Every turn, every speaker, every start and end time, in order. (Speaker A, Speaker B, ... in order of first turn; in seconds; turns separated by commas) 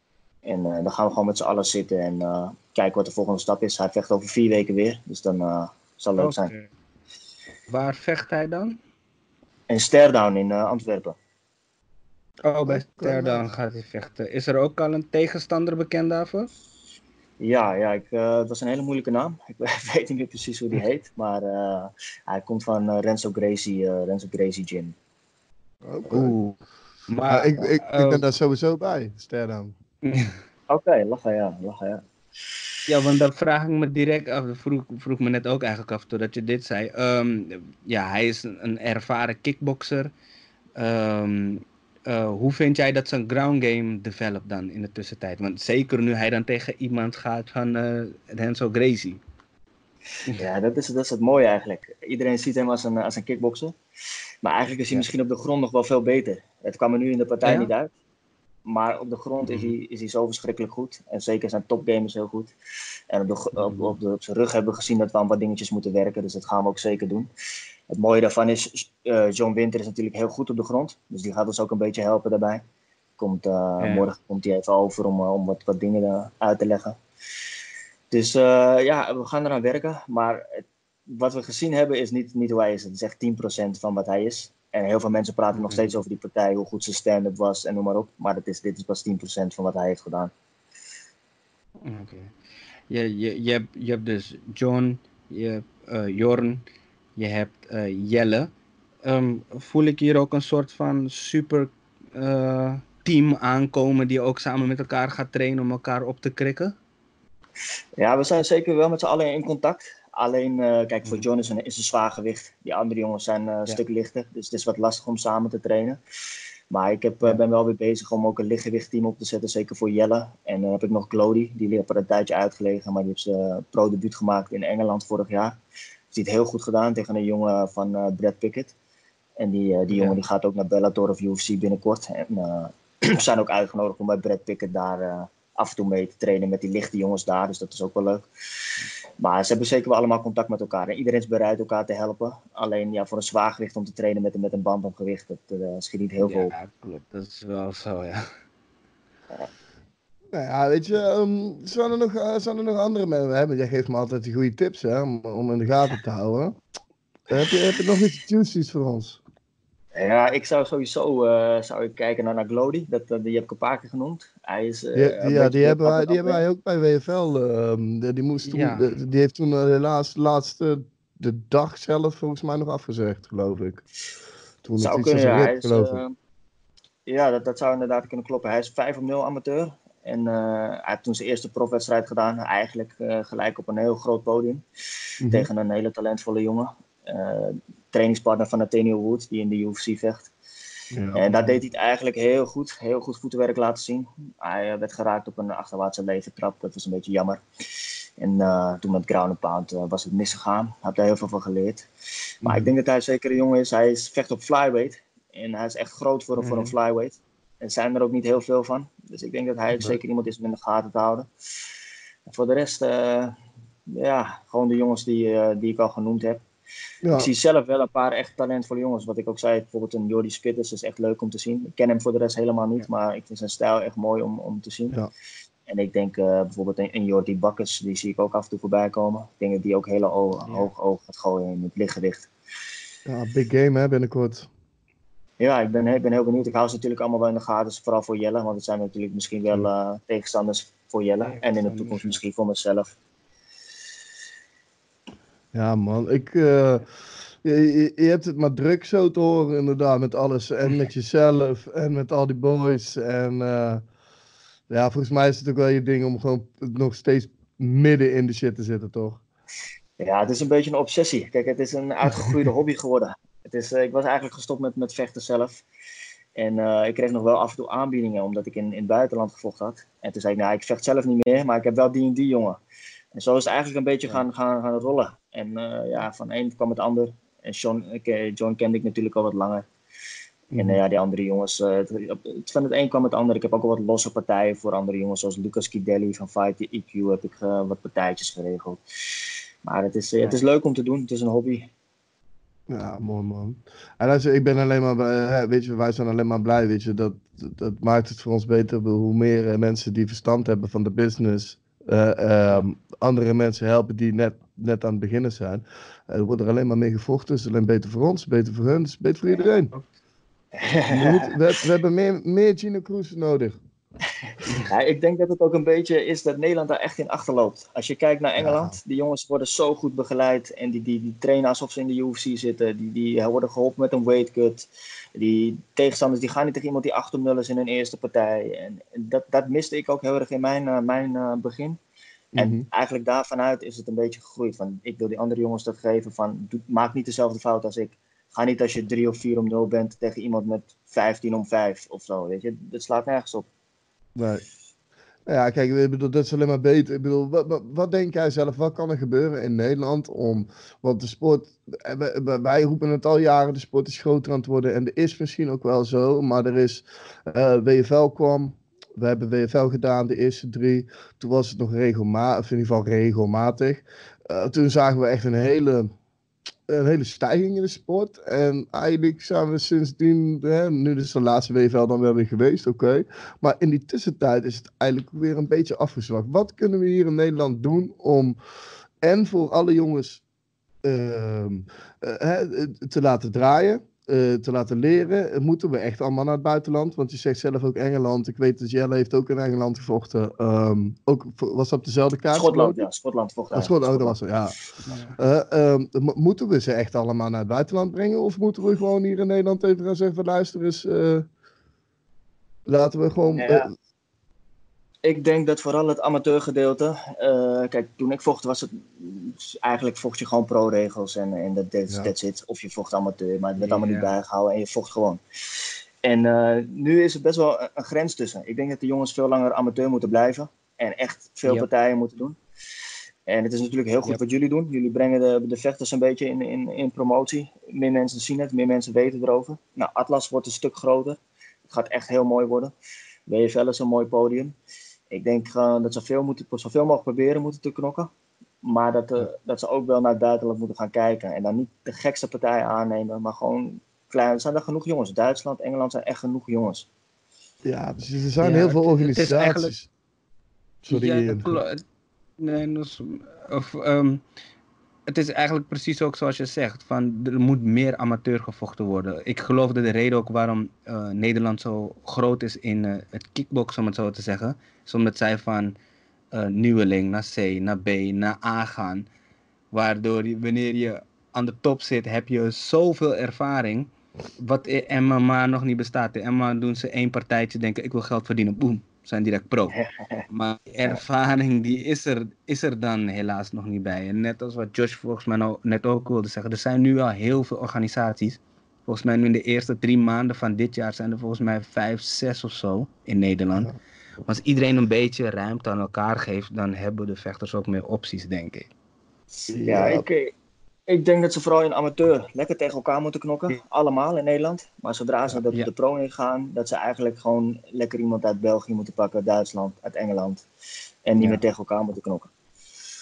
Speaker A: 0.4-6.5, Speaker B: 6.2-6.7, Speaker B: 7.7-8.8, Speaker A: 9.7-11.2, Speaker B: 12.4-16.5, Speaker C: 12.7-13.5, Speaker A: 17.4-24.9, Speaker C: 25.8-26.4, Speaker B: 26.1-26.6, Speaker B: 27.1-28.2, Speaker C: 27.2-29.7, Speaker B: 30.0-30.4, Speaker A: 30.7-32.0, Speaker B: 32.9-40.1, Speaker B: 40.8-49.2, Speaker A: 50.4-53.7, Speaker A: 54.4-57.9, Speaker B: 57.4-57.7, Speaker A: 58.6-62.5, Speaker B: 59.4-59.7, Speaker A: 63.1-67.3, Speaker B: 63.6-63.9, Speaker A: 67.9-72.6, Speaker A: 73.2-77.0, Speaker B: 73.8-74.1, Speaker A: 78.1-90.3, Speaker B: 85.5-85.9, Speaker B: 91.8-92.3, Speaker B: 92.9-96.6, Speaker B: 97.2-98.5, Speaker B: 99.0-106.7, Speaker A: 108.0-116.0, Speaker A: 116.7-125.6, Speaker A: 126.1-128.7, Speaker A: 129.4-138.2, Speaker A: 139.2-146.5, Speaker B: 146.2-148.3, Speaker C: 150.3-156.6, Speaker C: 157.3-159.2, Speaker A: 159.9-166.4, Speaker C: 164.9-173.8, Speaker B: 168.5-168.8, Speaker C: 174.6-176.0, Speaker A: 174.8-176.1, Speaker A: 177.1-184.6, Speaker C: 185.2-185.5, Speaker A: 185.3-190.3, Speaker C: 190.9-191.6, Speaker A: 191.1-201.9, Speaker A: 202.4-211.3, Speaker C: 202.4-202.7, Speaker B: 206.4-206.7, Speaker A: 212.3-216.4, Speaker C: 217.0-217.3, Speaker A: 217.1-225.0, Speaker A: 225.7-232.3, Speaker B: 230.4-230.7, Speaker C: 233.1-234.5, Speaker A: 235.4-242.9, Speaker B: 241.2-242.2, Speaker C: 245.5-246.9, Speaker C: 247.4-253.8, Speaker C: 254.7-259.2, Speaker A: 260.0-265.6, Speaker A: 266.4-272.6, Speaker A: 273.1-279.6, Speaker A: 280.6-291.7, Speaker C: 292.7-309.7, Speaker A: 310.6-311.4, Speaker C: 310.9-313.6, Speaker A: 314.3-331.8, Speaker C: 318.4-318.8, Speaker A: 332.3-343.5, Speaker C: 332.4-332.6, Speaker C: 344.1-344.4, Speaker C: 345.2-365.9, Speaker C: 366.7-378.4, Speaker C: 379.0-380.2, Speaker C: 380.8-392.9, Speaker A: 392.3-394.1, Speaker C: 393.5-394.6, Speaker B: 394.8-395.1, Speaker C: 395.2-401.3, Speaker C: 402.6-403.7, Speaker A: 403.4-403.7, Speaker A: 405.0-422.4, Speaker B: 413.6-414.1, Speaker A: 423.3-432.7, Speaker A: 433.3-434.5, Speaker A: 435.1-438.1, Speaker A: 438.6-446.9, Speaker C: 447.6-449.9, Speaker B: 448.4-449.7, Speaker C: 450.8-451.6, Speaker B: 450.9-451.8, Speaker B: 452.4-454.2, Speaker B: 455.1-465.8, Speaker B: 466.3-469.1, Speaker B: 469.7-479.8, Speaker A: 479.7-480.2, Speaker B: 480.3-493.7, Speaker B: 494.2-498.7, Speaker C: 499.5-500.0, Speaker A: 499.6-500.3, Speaker A: 500.9-510.4, Speaker A: 511.1-512.3